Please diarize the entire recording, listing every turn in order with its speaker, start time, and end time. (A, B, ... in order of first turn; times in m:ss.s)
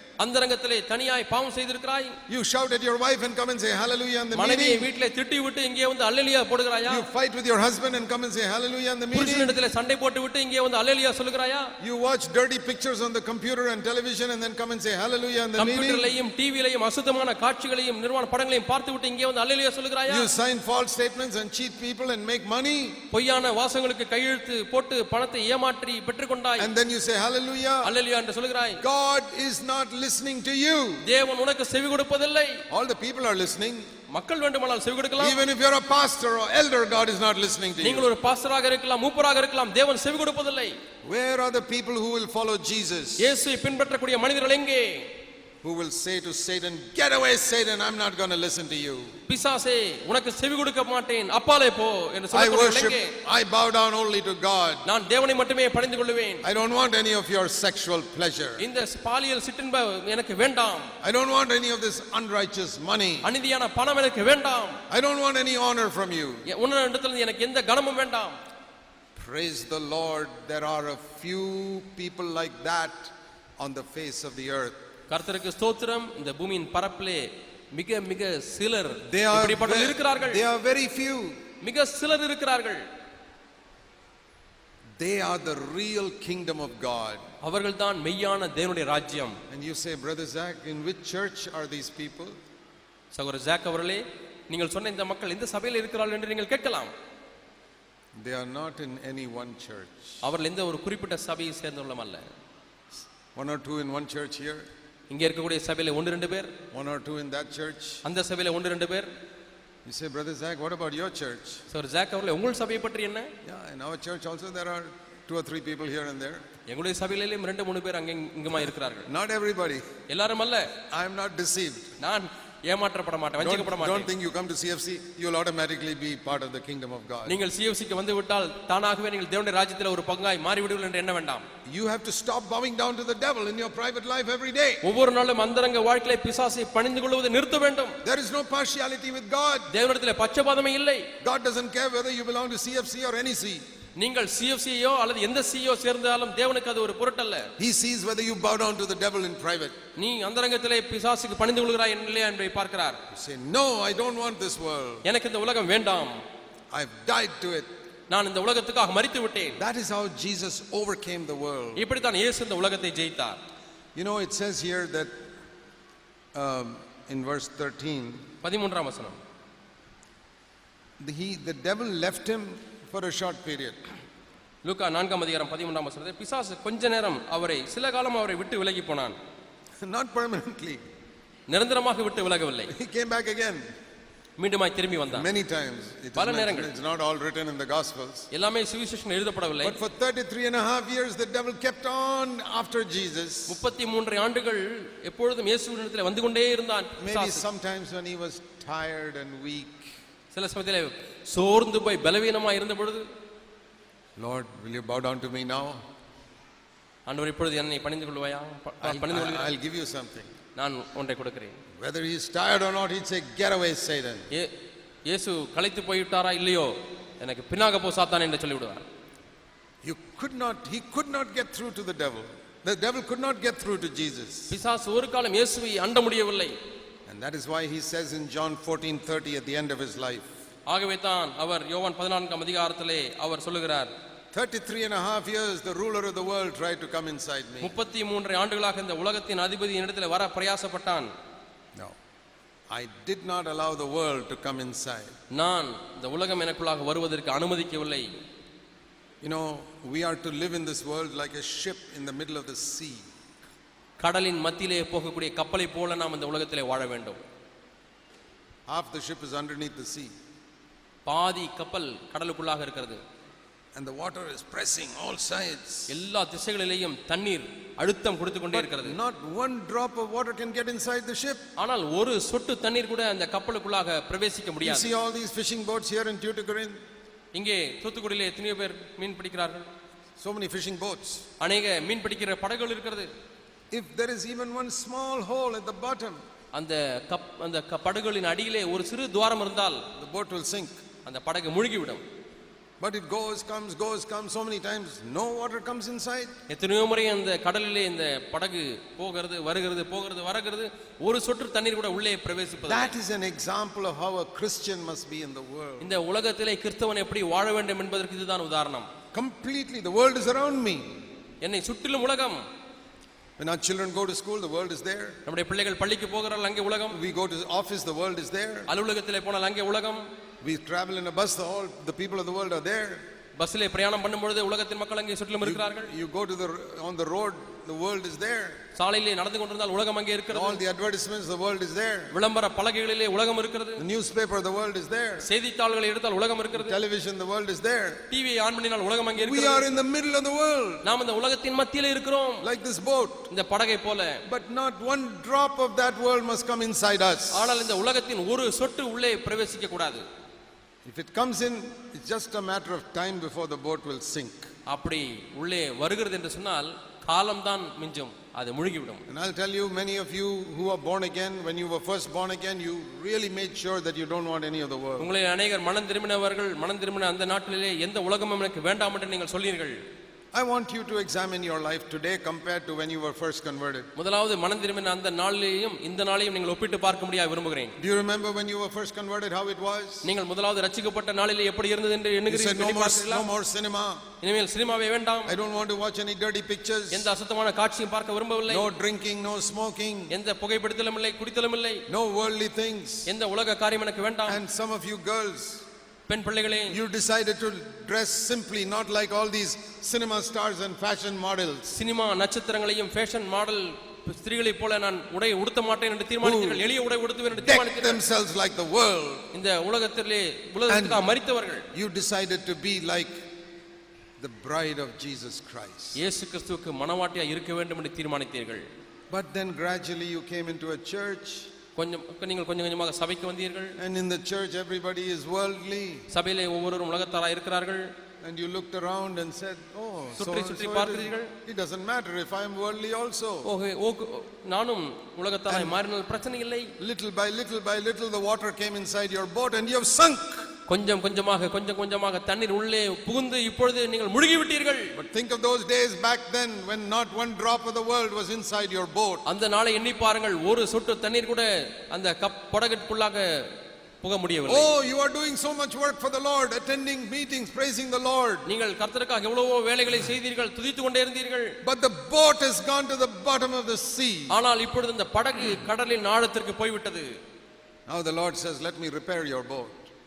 0:00.2-0:02.2 A
0:02.3-0:04.9 B
0:04.3-0:07.1 A
0:06.9-0:09.6 B
0:09.1-0:11.7 A
0:11.8-0:16.2 B
0:15.6-0:20.3 A
0:20.1-0:23.0 B
0:23.1-0:26.7 A
0:26.6-0:27.9 B
0:27.8-0:28.8 A
0:28.8-0:31.0 B
0:31.0-0:32.6 A
0:32.7-0:33.9 B
0:34.1-0:35.4 A
0:35.2-0:38.1 B
0:37.8-0:40.8 A
0:41.0-0:43.4 B
0:43.2-0:45.0 A
0:45.6-0:49.1 B
0:49.3-0:53.1 A
0:52.3-0:54.8 B
0:54.8-0:56.4 A
0:56.4-0:58.6 B
0:58.6-1:00.9 A
1:01.0-1:03.3 B
1:03.2-1:04.8 A
1:04.9-1:06.4 B
1:06.5-1:08.4 A
1:09.2-1:14.8 B
1:15.1-1:20.4 A
1:19.0-1:21.4 B
1:21.6-1:22.8 A
1:25.0-1:27.2 B
1:27.4-1:29.4 A
1:29.5-1:32.3 B
1:33.1-1:36.9 A
1:38.2-1:40.2 B
1:40.2-1:42.2 A
1:43.3-1:44.7 B
1:45.1-1:46.5 A
1:46.7-1:48.0 B
1:48.0-1:49.1 A
1:49.8-1:51.6 B
1:51.7-1:53.3 A
1:53.4-1:56.4 B
1:56.7-1:59.1 A
1:59.0-1:59.8 B
2:00.1-2:00.7 A
2:00.9-2:01.9 B
2:02.0-2:04.1 A
2:03.4-2:07.4 B
2:07.3-2:11.4 A
2:11.6-2:14.8 B
2:14.8-2:18.0 A
2:18.0-2:19.7 B
2:19.7-2:21.1 A
2:21.2-2:23.6 B
2:24.0-2:27.5 A
2:27.6-2:29.8 B
2:30.0-2:33.0 A
2:33.1-2:35.0 B
2:35.0-2:36.2 A
2:36.7-2:37.7 B
2:38.1-2:39.6 A
2:39.6-2:41.8 B
2:41.8-2:43.4 A
2:44.0-2:45.1 B
2:46.3-2:48.2 B
2:48.4-2:49.2 A
2:51.0-2:53.8 B
2:54.6-2:59.2 A
2:59.8-3:00.8 B
3:01.5-3:02.7 A
3:02.7-3:03.6 B
3:04.4-3:05.3 A
3:05.1-3:08.3 B
3:06.2-3:06.7 A
3:08.3-3:09.8 A
3:09.6-3:13.6 B
3:13.5-3:17.4 A
3:17.0-3:19.9 B
3:20.3-3:23.1 A
3:24.2-3:25.8 B
3:27.1-3:29.5 A
3:28.8-3:30.3 B
3:30.5-3:31.6 A
3:31.8-3:34.3 B
3:35.1-3:38.8 A
3:39.8-3:44.5 B
3:44.5-3:46.5 A
3:47.1-3:50.3 B
3:50.7-3:53.9 A
3:54.3-3:57.7 B
3:57.6-4:01.1 A
4:02.7-4:05.1 B
4:05.3-4:08.1 A
4:09.2-4:13.1 B
4:14.0-4:17.2 A
4:18.7-4:20.1 B
4:21.0-4:23.0 A
4:23.7-4:26.0 B
4:25.9-4:29.0 A
4:28.5-4:31.4 B
4:31.6-4:34.9 A
4:34.6-4:36.8 B
4:37.3-4:39.6 A
4:40.2-4:41.2 B
4:41.4-4:43.1 A
4:43.7-4:46.2 B
4:46.5-4:49.8 A
4:50.0-4:50.8 B
4:51.0-4:52.0 A
4:52.8-4:56.3 B
4:56.5-5:02.9 A
5:02.6-5:06.0 B
5:05.8-5:08.9 A
5:09.1-5:11.0 B
5:11.4-5:12.4 A
5:13.4-5:15.2 B
5:15.2-5:17.0 A
5:16.9-5:18.7 B
5:18.7-5:20.0 A
5:20.4-5:23.0 B
5:23.4-5:25.9 A
5:25.4-5:28.6 B
5:28.8-5:30.6 A
5:30.3-5:32.1 B
5:32.1-5:33.8 A
5:33.8-5:35.3 B
5:35.2-5:36.8 A
5:36.5-5:38.0 B
5:38.1-5:39.7 A
5:39.1-5:40.8 B
5:40.8-5:42.5 A
5:42.4-5:43.3 B
5:43.3-5:44.2 A
5:44.3-5:47.6 B
5:47.3-5:50.0 A
5:50.8-5:54.5 B
5:54.7-5:59.0 A
5:59.1-6:05.1 B
6:05.0-6:09.8 A
6:10.3-6:13.9 B
6:14.0-6:17.7 A
6:17.8-6:20.1 B
6:20.0-6:23.3 A
6:22.3-6:24.0 B
6:24.2-6:25.3 A
6:25.2-6:27.1 B
6:26.9-6:28.7 A
6:28.5-6:30.1 B
6:30.1-6:31.8 A
6:31.9-6:33.1 B
6:33.0-6:34.4 A
6:34.3-6:35.6 B
6:36.1-6:36.8 A
6:36.7-6:41.7 B
6:41.7-6:48.0 A
6:46.2-6:46.6 B
6:47.3-6:49.3 B
6:49.3-6:51.6 A
6:50.7-6:51.1 B
6:51.7-6:53.2 B
6:54.2-6:56.0 B
6:55.9-6:58.6 A
6:59.1-7:01.5 B
7:01.8-7:03.8 A
7:03.8-7:06.0 B
7:06.1-7:07.9 A
7:08.2-7:13.5 B
7:10.2-7:11.3 A
7:13.4-7:16.7 A
7:15.5-7:15.8 B
7:16.8-7:20.5 B
7:20.7-7:24.9 A
7:24.9-7:29.2 B
7:29.2-7:33.4 A
7:34.0-7:34.7 A
7:34.5-7:38.4 B
7:38.4-7:41.5 A
7:41.6-7:44.4 B
7:44.3-7:47.2 A
7:47.9-7:49.9 B